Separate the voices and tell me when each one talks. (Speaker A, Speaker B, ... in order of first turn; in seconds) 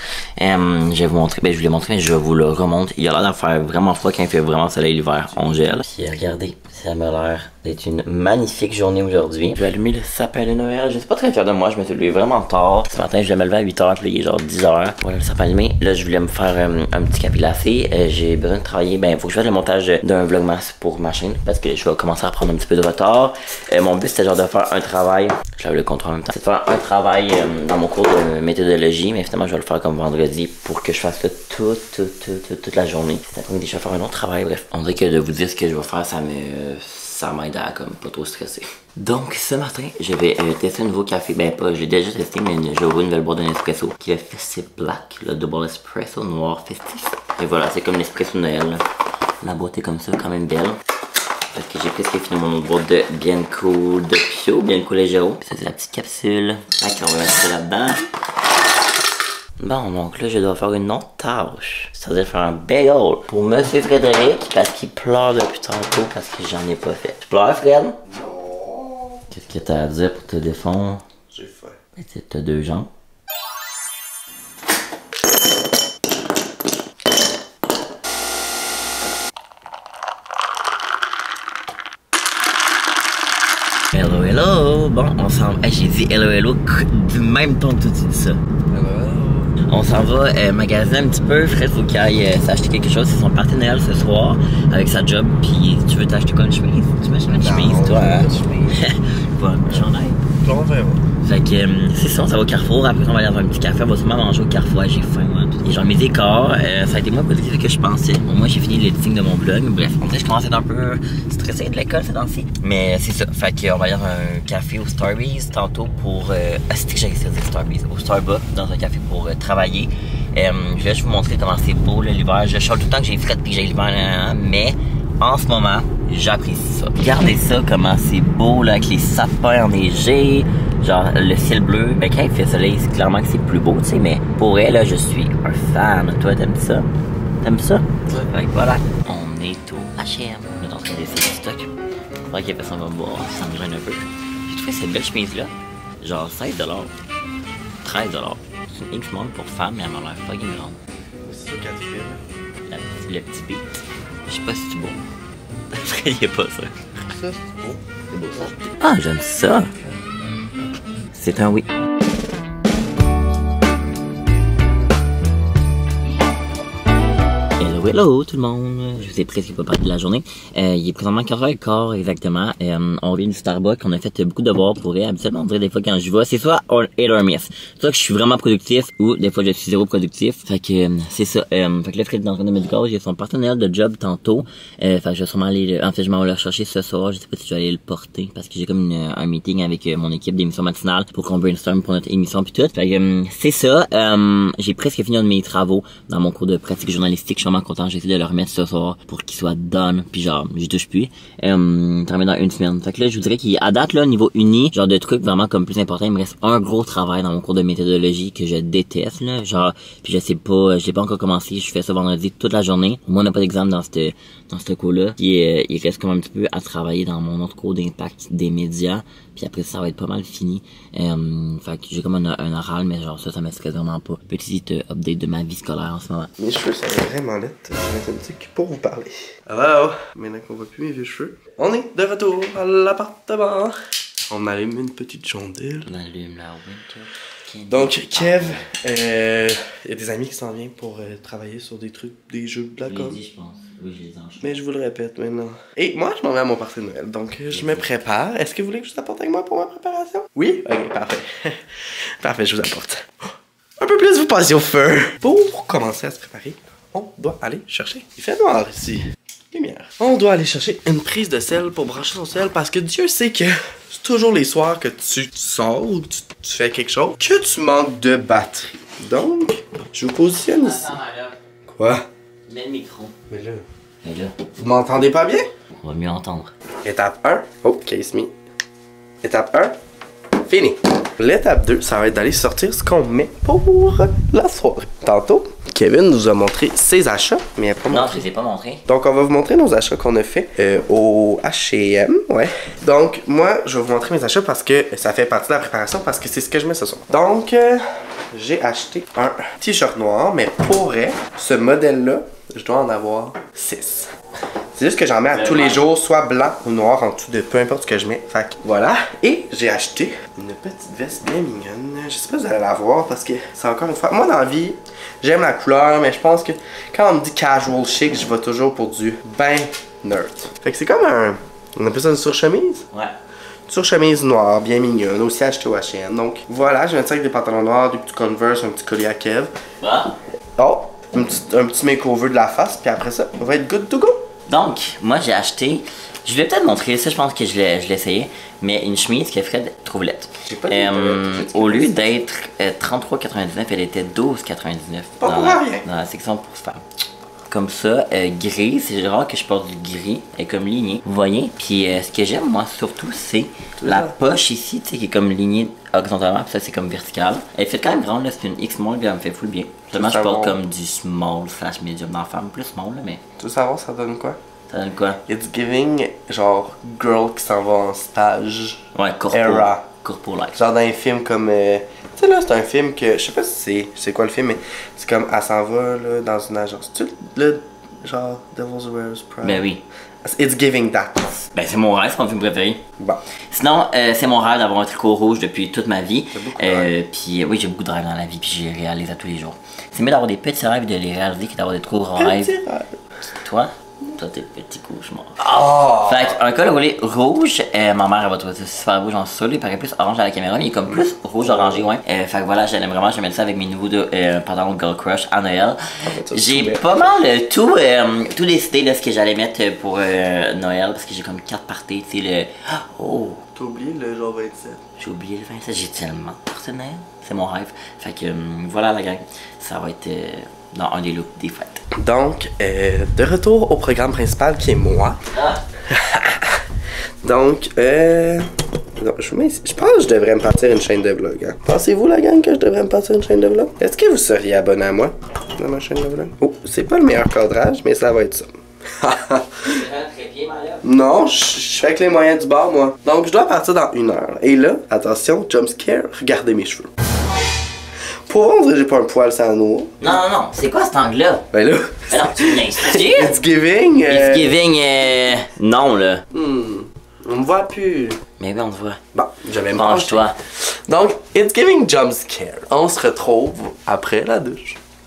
Speaker A: 0.4-48.8, 49.4-50.8, 51.5-58.0, 59.6-68.0, 69.3-71.0, 72.0-72.9, 83.9-88.4, 89.7-100.2, 101.2-136.9, 137.4-141.7, 142.3-146.9, 147.8-150.8, 152.7-155.0, 155.7-156.8, 158.2-159.7, 161.1-161.7, 167.6-226.3, 235.8-238.7, 242.9-244.5, 247.5-248.0, 270.5-271.4, 272.5-273.1, 274.0-274.4, 275.8-276.5, 287.9-288.8, 305.3-305.8, 329.8-330.1, 334.5-346.8, 347.5-363.2, 364.7-365.2, 368.9-370.6, 379.4-379.8, 381.5-382.8, 383.5-392.5, 393.3-413.4, 415.0-421.8, 425.3-425.6, 439.6-440.9, 450.0-451.5, 452.1-453.4, 454.1-456.2, 458.4-459.0, 459.7-460.4
Speaker B: 68.1-69.2, 71.3-71.8, 88.7-89.6, 97.3-98.8, 99.7-101.1, 151.2-152.2, 157.1-158.6, 226.4-233.7, 234.3-235.9, 237.7-243.2, 244.4-251.6, 252.2-253.1, 253.8-270.9, 271.7-272.1, 273.3-273.6, 274.6-275.5, 276.9-278.3, 279.2-279.8, 280.4-288.3, 288.9-304.1, 304.8-322.9, 323.7-329.5, 330.6-334.2, 340.5-342.1, 345.2-345.9, 353.8-354.2, 359.9-360.6, 363.4-364.4, 365.3-369.9, 370.6-379.6, 380.2-381.4, 386.3-386.9, 392.2-393.0, 395.4-396.4, 400.9-401.9, 406.0-407.0, 413.6-414.8, 422.0-425.2, 425.9-426.6, 427.2-439.8, 440.8-446.9, 448.3-450.0, 451.5-454.6, 456.3-458.2, 459.1-464.8